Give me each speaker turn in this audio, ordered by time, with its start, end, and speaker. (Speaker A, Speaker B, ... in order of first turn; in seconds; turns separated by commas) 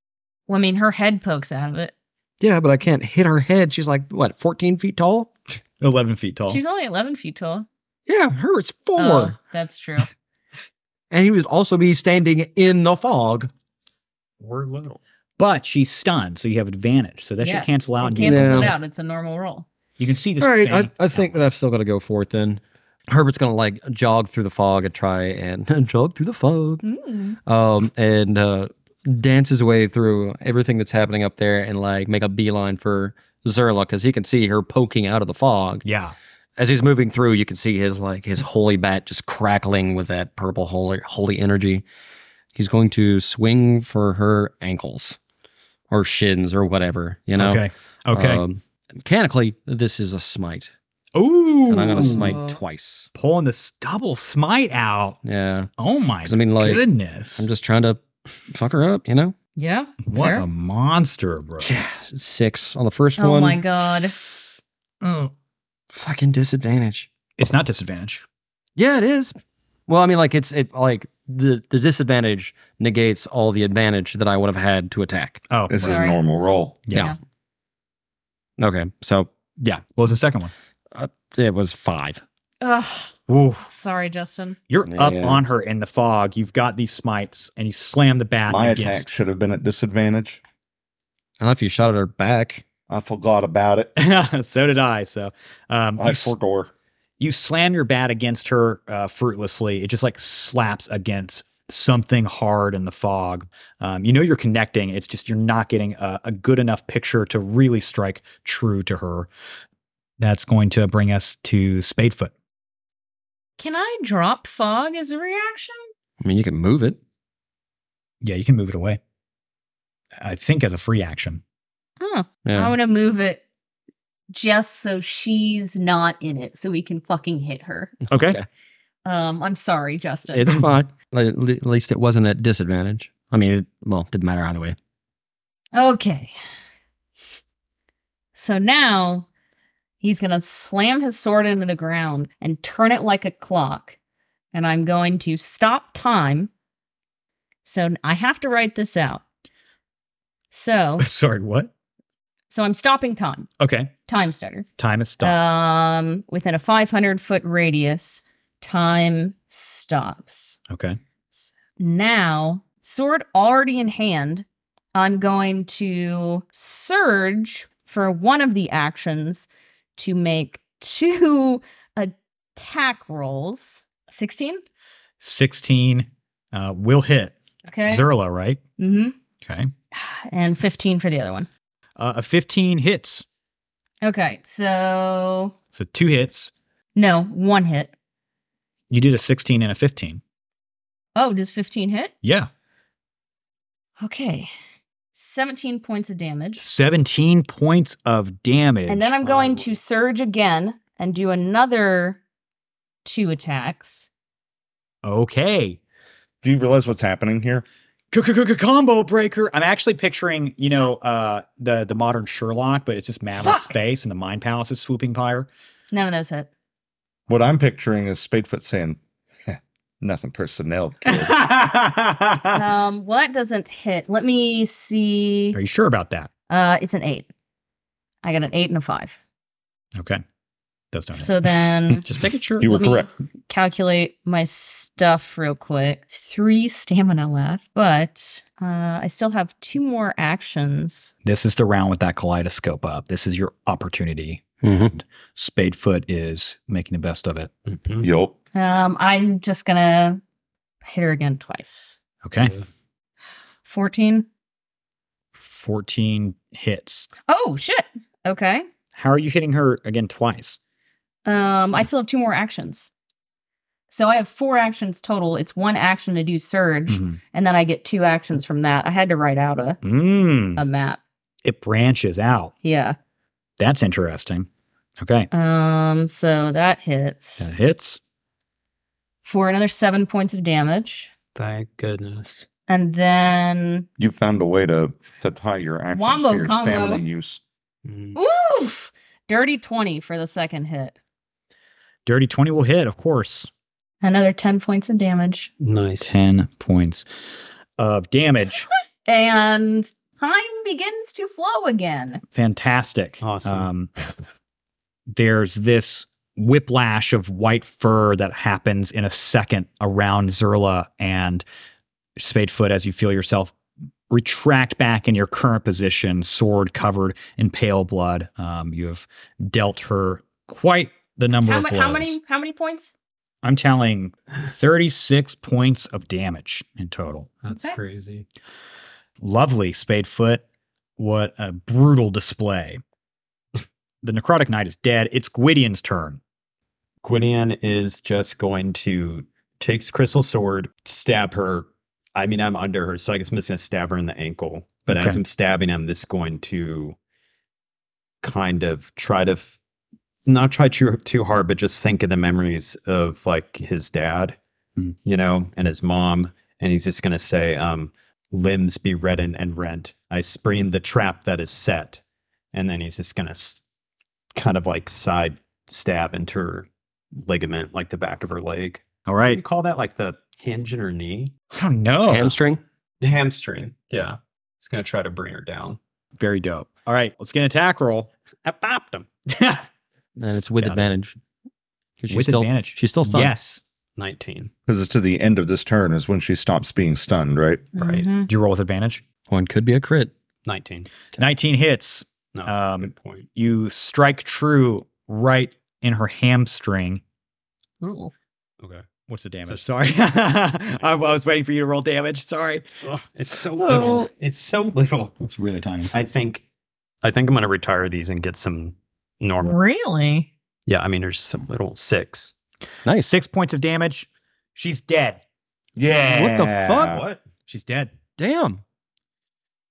Speaker A: 0.5-1.9, Speaker B: 2.4-5.3, Speaker C: 5.8-6.6, Speaker A: 6.5-7.7, Speaker B: 8.1-9.3, Speaker A: 8.9-10.1, Speaker B: 11.1-13.5, Speaker C: 14.4-18.8, Speaker A: 17.4-19.6, Speaker B: 18.2-18.7, Speaker C: 20.0-21.3, Speaker B: 20.4-26.8, Speaker A: 26.8-27.4, Speaker B: 27.4-35.8, Speaker C: 35.8-36.1, Speaker B: 36.6-41.9, Speaker B: 42.5-45.2, Speaker B: 45.9-50.7, Speaker C: 47.4-48.4, Speaker C: 51.1-52.4, Speaker B: 51.7-53.1, Speaker A: 51.8-52.6, Speaker C: 53.1-55.2, Speaker B: 55.2-55.7, Speaker C: 55.8-57.5, Speaker B: 56.2-56.8, Speaker B: 57.4-59.3, Speaker A: 59.5-60.4, Speaker C: 60.1-61.7, Speaker B: 61.6-63.6, Speaker A: 63.2-64.2, Speaker C: 64.1-64.5, Speaker C: 65.0-65.3, Speaker B: 65.9-67.1, Speaker C: 67.4-68.2, Speaker B: 68.8-69.3, Speaker B: 69.9-75.4, Speaker C: 75.5-76.0, Speaker D: 75.7-76.8, Speaker A: 75.8-76.2, Speaker C: 76.9-77.1, Speaker A: 76.9-77.2, Speaker B: 78.6-79.8, Speaker C: 79.8-80.5, Speaker B: 80.9-82.2, Speaker A: 82.6-83.2, Speaker C: 83.3-83.7, Speaker A: 83.7-84.6, Speaker C: 84.7-89.1, Speaker B: 84.8-85.4, Speaker D: 88.5-90.4, Speaker B: 91.4-92.6, Speaker D: 92.9-93.9, Speaker C: 94.0-96.3, Speaker D: 96.0-96.7, Speaker C: 97.2-109.3, Speaker C: 110.2-112.3, Speaker A: 113.6-115.9, Speaker B: 116.2-117.0, Speaker C: 118.2-119.0, Speaker C: 120.2-121.4, Speaker A: 122.0-123.4, Speaker B: 122.4-122.7, Speaker A: 124.3-127.9, Speaker C: 128.1-128.4, Speaker B: 128.1-128.4, Speaker A: 129.1-130.6, Speaker B: 130.3-134.8, Speaker A: 135.7-136.3, Speaker A: 138.3-139.3, Speaker A: 140.0-143.9, Speaker A: 144.5-146.5, Speaker A: 147.6-149.2, Speaker A: 150.5-151.1, Speaker C: 151.0-151.7, Speaker A: 152.5-153.5, Speaker C: 153.6-153.9, Speaker A: 154.1-154.7, Speaker C: 154.8-155.4, Speaker A: 155.2-160.6, Speaker C: 160.7-161.0, Speaker A: 161.3-174.6, Speaker C: 175.2-177.3, Speaker A: 177.7-178.1, Speaker C: 177.9-178.6, Speaker A: 178.8-179.1, Speaker C: 179.4-179.7, Speaker A: 179.9-181.5, Speaker C: 182.0-183.2, Speaker A: 184.0-185.6, Speaker C: 185.7-186.5, Speaker A: 186.9-187.9, Speaker C: 188.9-190.2, Speaker A: 191.1-192.1, Speaker C: 192.2-192.5, Speaker A: 194.0-194.5, Speaker A: 195.1-196.6, Speaker C: 196.6-199.2, Speaker A: 198.9-202.2, Speaker E: 199.2-199.7, Speaker A: 203.1-204.1, Speaker C: 205.0-205.8, Speaker D: 206.4-207.6, Speaker C: 208.1-215.5, Speaker A: 215.9-216.5, Speaker D: 217.3-221.4, Speaker C: 221.1-222.6, Speaker A: 222.5-225.6, Speaker C: 225.5-226.3, Speaker A: 226.5-227.3, Speaker A: 228.2-229.2, Speaker C: 230.9-231.3, Speaker A: 231.1-232.0, Speaker C: 232.0-232.7, Speaker D: 232.6-233.1, Speaker A: 232.6-241.1, Speaker C: 241.2-247.5, Speaker B: 244.6-244.9, Speaker E: 247.7-248.1, Speaker D: 248.0-248.3, Speaker A: 248.5-250.2, Speaker A: 250.8-252.0, Speaker C: 252.2-252.6, Speaker E: 252.4-252.6, Speaker A: 253.6-254.3, Speaker C: 255.3-257.1, Speaker A: 257.3-258.6, Speaker C: 258.9-260.6, Speaker A: 261.2-262.9, Speaker A: 263.9-269.8, Speaker C: 266.9-267.2, Speaker C: 269.8-270.6, Speaker A: 270.6-271.0, Speaker C: 271.4-272.5, Speaker A: 272.6-273.0, Speaker C: 273.6-274.5, Speaker C: 275.0-275.3, Speaker A: 275.3-277.5, Speaker C: 277.4-278.0, Speaker A: 279.2-281.1, Speaker E: 281.4-282.5, Speaker A: 282.7-283.9, Speaker D: 284.0-287.4, Speaker A: 285.9-287.0, Speaker E: 287.8-288.2, Speaker A: 288.1-290.9, Speaker C: 292.1-293.5, Speaker A: 294.0-295.5, Speaker E: 295.6-296.1, Speaker C: 296.0-297.1, Speaker C: 297.8-298.7, Speaker A: 299.1-302.2, Speaker C: 302.3-303.9, Speaker E: 303.2-303.7, Speaker C: 305.1-311.4, Speaker C: 312.2-313.5, Speaker C: 314.1-322.2, Speaker A: 321.4-322.9, Speaker C: 323.4-327.3, Speaker E: 327.4-328.3, Speaker A: 327.5-327.8, Speaker C: 329.2-330.4, Speaker C: 331.0-332.8, Speaker C: 334.0-336.2, Speaker E: 337.0-346.9, Speaker C: 344.9-345.2, Speaker E: 348.2-349.6, Speaker E: 350.3-354.4, Speaker E: 355.1-362.0, Speaker E: 362.5-363.6, Speaker E: 364.3-371.3, Speaker C: 369.1-369.4, Speaker C: 371.5-372.4, Speaker B: 372.1-372.6, Speaker E: 373.0-375.8, Speaker C: 376.2-378.1, Speaker E: 378.4-379.1, Speaker B: 380.1-381.1, Speaker B: 382.0-383.3, Speaker C: 382.1-383.6, Speaker E: 384.0-384.5, Speaker D: 384.7-387.7, Speaker A: 387.7-388.3, Speaker E: 387.8-388.1, Speaker C: 388.3-389.0, Speaker B: 389.3-390.1, Speaker E: 390.4-390.9, Speaker C: 391.2-397.0, Speaker E: 392.3-393.3, Speaker A: 397.8-398.1, Speaker C: 399.1-402.6, Speaker E: 402.8-405.3, Speaker C: 403.7-404.0, Speaker C: 405.3-405.9, Speaker E: 405.9-406.4, Speaker E: 407.0-409.6, Speaker A: 409.4-410.3, Speaker E: 410.7-412.3, Speaker B: 412.8-413.1, Speaker C: 413.0-415.2, Speaker D: 415.8-417.0, Speaker B: 415.9-417.0, Speaker E: 416.8-417.2, Speaker C: 417.4-417.9, Speaker B: 418.2-418.6